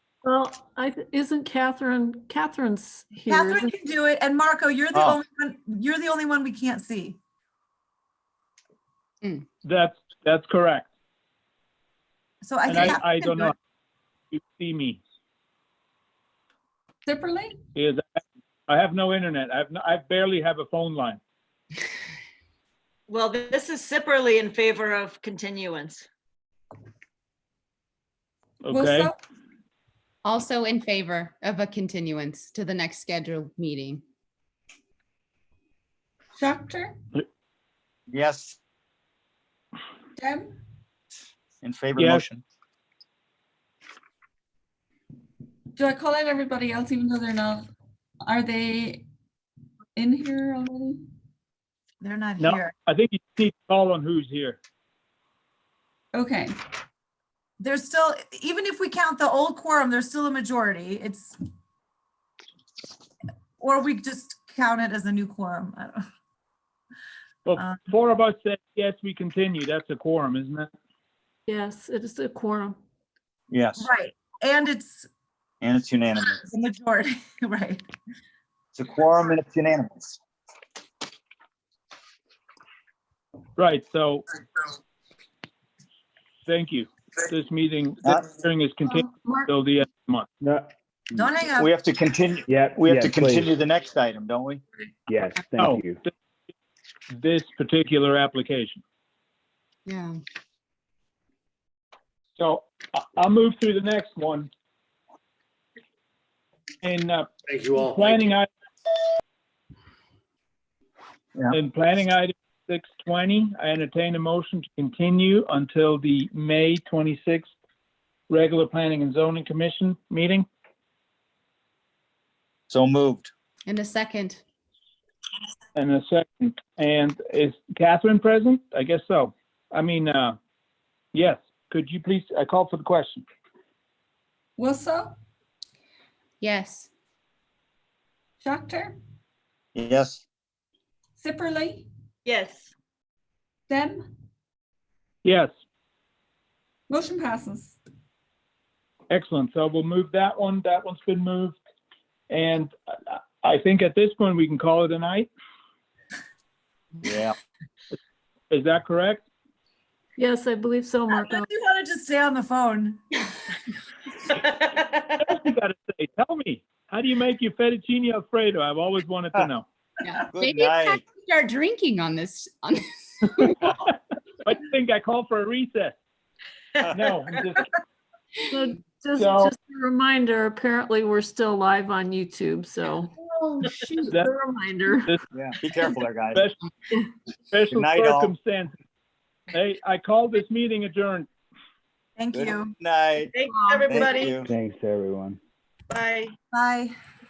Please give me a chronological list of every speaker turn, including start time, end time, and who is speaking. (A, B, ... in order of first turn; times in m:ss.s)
0:00.2-0:03.7 A
0:03.3-0:07.2 B
0:04.9-0:05.2 C
0:09.6-0:10.9 D
0:12.4-0:13.5 B
0:12.7-0:13.5 D
0:14.3-0:15.0 D
0:17.0-0:17.6 E
0:17.7-0:18.0 D
0:18.7-0:21.2 D
0:23.1-0:26.0 F
0:28.6-0:29.1 D
0:28.7-0:29.2 E
0:30.2-0:34.0 G
0:36.4-0:37.0 E
0:38.1-0:38.6 C
0:40.2-0:40.6 E
0:41.6-0:42.4 C
0:42.0-0:42.2 D
0:45.7-0:47.6 E
0:48.2-0:49.0 E
0:50.0-0:51.0 E
0:52.0-0:52.7 B
0:52.4-0:54.6 D
0:56.1-0:56.5 E
0:57.6-1:01.4 B
1:03.6-1:06.0 B
1:07.4-1:10.7 D
1:11.5-1:12.8 A
1:13.5-1:13.9 C
1:13.8-1:15.1 B
1:15.6-1:16.4 C
1:16.4-1:17.8 B
1:18.7-1:20.2 C
1:23.6-1:24.2 D
1:26.4-1:30.3 D
1:30.4-1:31.2 H
1:31.2-1:31.7 B
1:31.6-1:34.6 C
1:32.5-1:33.5 H
1:35.1-1:36.0 H
1:35.6-1:36.1 D
1:37.1-1:38.8 D
1:39.8-1:40.1 G
1:42.4-1:44.5 D
1:46.8-1:48.5 D
1:47.5-1:48.0 H
1:51.5-1:57.5 D
1:58.3-2:00.4 D
2:02.7-2:03.3 C
2:03.6-2:04.4 G
2:05.7-2:10.4 D
2:11.1-2:13.2 D
2:14.6-2:15.2 E
2:16.4-2:16.9 G
2:18.4-2:19.0 E
2:19.8-2:20.2 C
2:21.2-2:21.9 E
2:22.2-2:22.7 F
2:23.7-2:24.0 E
2:25.2-2:25.5 D
2:26.9-2:27.8 E
2:29.1-2:31.6 D
2:32.3-2:35.3 D
2:37.0-2:37.3 C
2:38.5-2:39.2 D
2:40.2-2:41.5 A
2:41.1-2:43.0 B
2:45.2-2:49.6 D
2:50.0-2:53.7 G
2:50.3-2:51.0 C
2:54.4-2:56.0 D
2:56.9-2:57.7 D
2:58.5-3:03.1 A
2:59.2-2:59.5 D
3:03.2-3:04.1 G
3:04.0-3:05.1 A
3:05.3-3:06.5 C
3:06.3-3:06.6 D
3:07.5-3:08.8 D
3:07.7-3:08.3 C
3:09.5-3:11.3 D
3:12.2-3:12.7 B
3:12.3-3:13.3 C
3:13.3-3:14.4 F
3:13.8-3:14.5 C
3:14.4-3:15.4 H
3:15.9-3:16.3 F
3:16.5-3:16.9 B